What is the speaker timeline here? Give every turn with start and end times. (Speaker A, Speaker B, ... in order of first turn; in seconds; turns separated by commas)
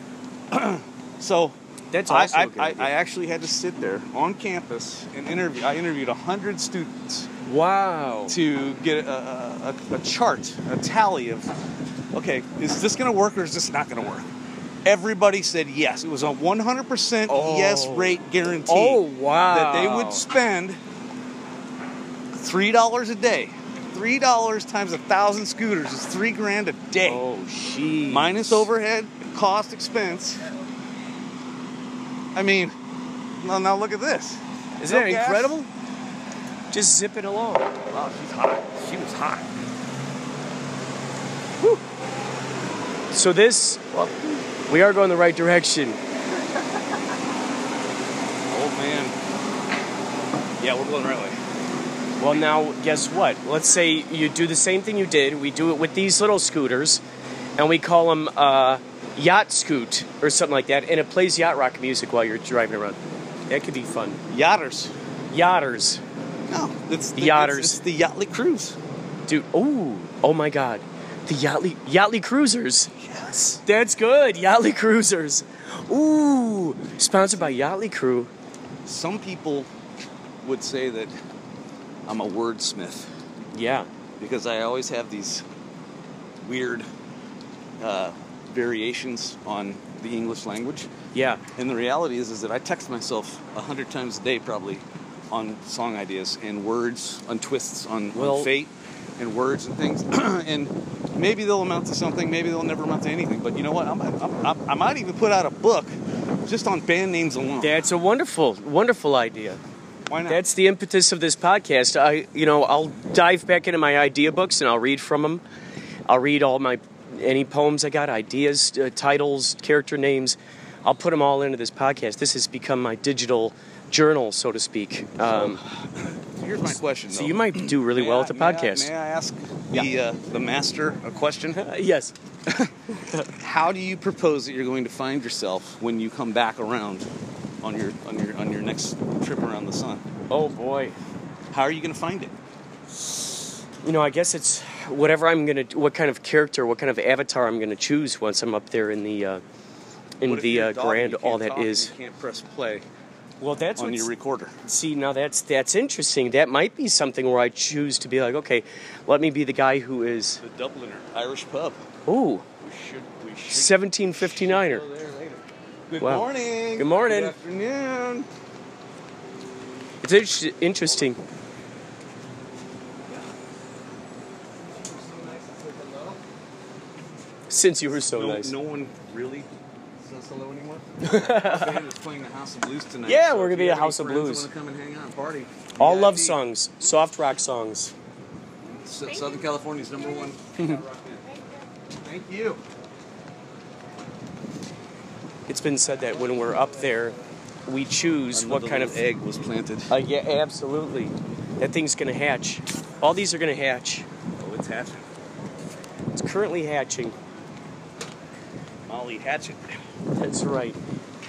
Speaker A: 0.5-7.3, Speaker B: 1.9-2.9, Speaker B: 7.5-8.4, Speaker A: 8.3-11.5, Speaker A: 12.1-14.3, Speaker A: 14.8-20.8, Speaker B: 17.3-20.2, Speaker A: 22.3-27.2, Speaker B: 27.0-28.7, Speaker A: 28.1-30.4, Speaker A: 32.4-32.7, Speaker A: 33.4-35.6, Speaker B: 34.8-35.7, Speaker B: 36.7-37.7, Speaker A: 37.9-39.6, Speaker B: 43.1-43.8, Speaker A: 43.9-44.4, Speaker B: 44.7-46.0, Speaker A: 48.5-49.1, Speaker A: 50.6-51.4, Speaker B: 52.2-57.0, Speaker B: 57.6-63.0, Speaker B: 63.5-64.2, Speaker A: 64.3-64.9, Speaker B: 65.3-66.0, Speaker A: 66.5-68.8, Speaker B: 67.2-67.8, Speaker B: 69.3-72.9, Speaker A: 73.0-73.6, Speaker B: 73.6-78.3, Speaker A: 78.8-79.7, Speaker A: 80.4-81.1, Speaker A: 82.1-83.1, Speaker B: 83.5-83.9, Speaker A: 84.2-85.4, Speaker A: 86.4-86.9, Speaker A: 87.8-90.9, Speaker B: 91.1-91.4, Speaker A: 91.6-107.8, Speaker B: 98.1-98.5, Speaker B: 107.6-109.6, Speaker A: 110.1-110.4, Speaker B: 110.3-115.4, Speaker B: 116.1-125.6, Speaker A: 125.2-131.6, Speaker B: 127.1-128.9, Speaker B: 131.5-132.1, Speaker A: 133.3-137.1, Speaker A: 137.6-140.0, Speaker B: 140.3-140.9, Speaker A: 141.5-142.3, Speaker B: 143.8-149.4, Speaker B: 150.2-151.9, Speaker A: 150.2-152.8, Speaker B: 153.4-154.1, Speaker A: 153.8-154.5, Speaker B: 154.6-160.4, Speaker A: 160.4-161.8, Speaker B: 162.1-162.4, Speaker A: 162.6-168.3, Speaker B: 163.5-164.8, Speaker B: 166.0-167.3, Speaker B: 170.0-171.2, Speaker A: 175.1-176.2, Speaker B: 177.5-178.6, Speaker A: 178.0-179.5, Speaker A: 180.0-186.4, Speaker B: 181.0-181.8, Speaker B: 183.1-184.5, Speaker B: 185.8-187.9, Speaker A: 188.7-191.2, Speaker A: 192.0-192.6, Speaker B: 195.5-197.1, Speaker B: 197.7-199.0, Speaker A: 198.3-199.9, Speaker B: 199.9-204.1, Speaker A: 204.4-205.1, Speaker B: 206.1-207.2, Speaker A: 208.9-209.8, Speaker B: 210.2-210.8